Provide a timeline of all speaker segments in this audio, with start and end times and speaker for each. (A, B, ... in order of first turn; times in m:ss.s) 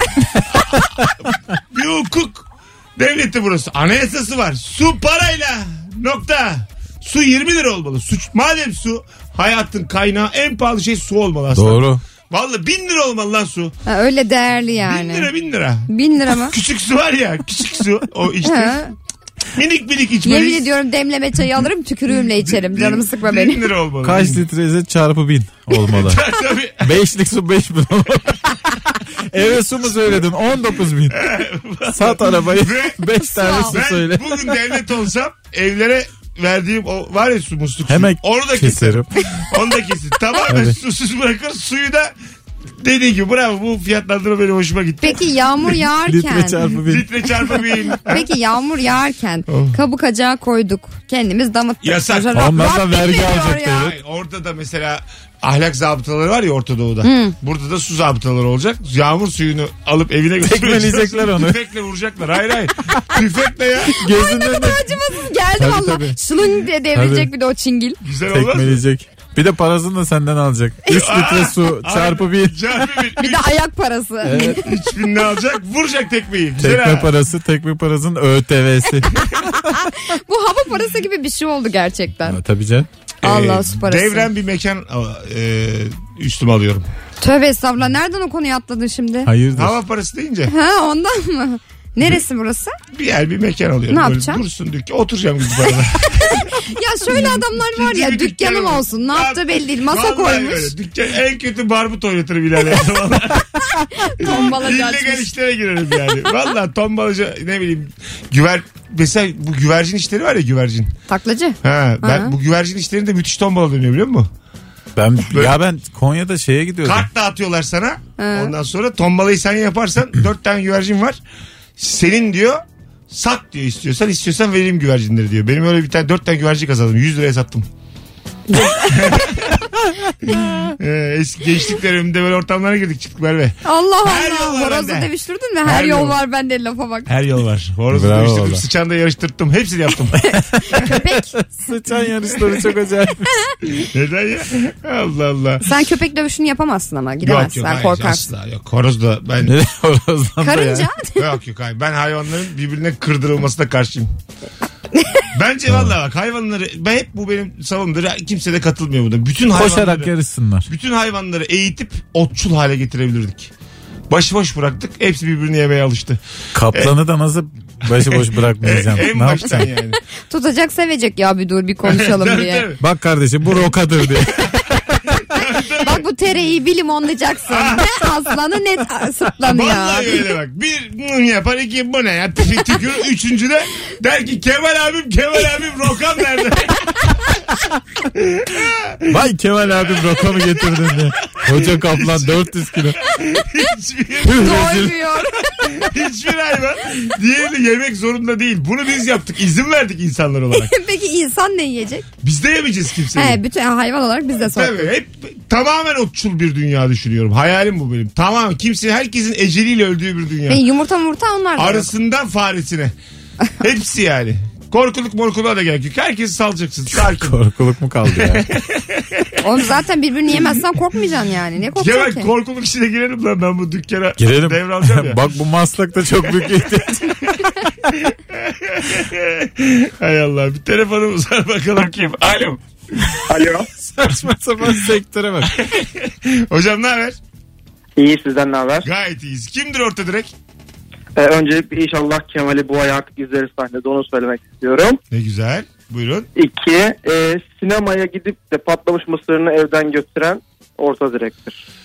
0:00.6-0:13.7 A
0:11.5-0:12.0 B
0:13.9-0:15.3 C
0:14.8-0:18.8 A
0:15.9-0:16.5 C
0:18.4-0:18.9 C
0:19.5-0:20.7 A
0:20.2-0:23.6 C
0:22.2-0:24.4 A
0:24.0-0:26.2 B
0:25.7-0:27.0 A
0:26.8-0:31.3 B
0:31.1-0:33.0 A
0:31.9-0:34.3 B
0:33.2-0:33.8 C
0:33.7-0:42.1 A
0:37.9-0:39.1 B
0:40.5-0:40.8 B
0:42.8-0:45.3 A
0:45.0-0:46.6 C
0:46.0-0:47.0 B
0:46.8-0:48.3 A
0:48.0-0:53.9 C
0:49.5-0:49.8 A
0:51.8-0:52.8 A
0:52.3-0:53.9 B
0:53.4-1:04.0 A
0:57.0-0:57.3 C
1:00.4-1:01.6 B
1:04.0-1:05.0 B
1:04.1-1:08.0 C
1:05.6-1:06.2 B
1:06.9-1:07.3 B
1:08.0-1:08.8 A
1:08.3-1:12.6 B
1:10.9-1:13.5 A
1:13.2-1:14.7 C
1:14.2-1:14.6 B
1:14.4-1:17.1 A
1:16.6-1:19.5 B
1:19.8-1:22.4 C
1:22.3-1:22.9 B
1:23.2-1:26.8 A
1:23.2-1:24.3 C
1:27.2-1:29.3 C
1:29.3-1:29.7 B
1:29.5-1:30.5 A
1:30.5-1:32.8 C
1:32.9-1:36.5 A
1:33.9-1:34.4 C
1:36.2-1:40.7 C
1:37.1-1:43.6 A
1:44.0-1:45.3 C
1:44.2-1:50.9 A
1:51.1-1:52.3 C
1:51.6-1:54.3 A
1:55.0-1:57.1 B
1:55.3-1:55.6 A
1:56.8-2:01.2 A
1:58.2-1:58.5 C
2:01.8-2:07.7 A
2:08.5-2:09.2 C
2:08.9-2:09.6 A
2:10.3-2:15.1 A
2:13.6-2:17.1 C
2:15.6-2:16.2 A
2:17.1-2:20.2 A
2:17.9-2:18.6 B
2:20.2-2:21.4 C
2:20.5-2:23.3 B
2:23.8-2:25.7 A
2:25.6-2:28.3 C
2:27.2-2:29.6 A
2:29.4-2:30.9 B
2:30.4-2:31.3 C
2:31.2-2:34.1 A
2:35.0-2:35.2 C
2:35.3-2:40.1 A
2:35.7-2:35.9 B
2:39.5-2:40.7 B
2:40.7-2:43.5 A
2:44.1-2:46.2 A
2:46.6-2:49.7 B
2:47.9-2:50.0 A
2:50.3-2:52.6 C
2:51.8-2:52.8 A
2:52.8-2:54.6 B
2:55.2-2:56.0 A
2:55.8-3:00.2 C
2:57.5-2:57.9 A
2:59.4-3:07.3 A
3:08.1-3:09.2 A
3:09.1-3:13.0 B
3:09.8-3:14.9 A
3:14.2-3:14.9 B
3:14.4-3:15.7 C
3:15.6-3:20.7 A
3:20.5-3:22.1 C
3:22.2-3:23.4 A
3:23.1-3:24.9 C
3:24.5-3:30.6 A
3:30.5-3:31.9 C
3:31.6-3:32.9 A
3:33.6-3:37.4 A
3:36.9-3:38.4 B
3:38.1-3:39.4 A
3:39.4-3:42.3 C
3:41.8-3:45.2 A
3:44.2-3:47.7 B
3:48.1-3:53.4 A
3:53.3-3:53.6 D
3:53.8-3:55.6 B
3:55.4-3:57.2 A
3:58.0-3:58.9 D
3:58.8-4:00.3 A
4:01.2-4:05.0 D
4:05.1-4:06.3 A
4:06.4-4:11.6 D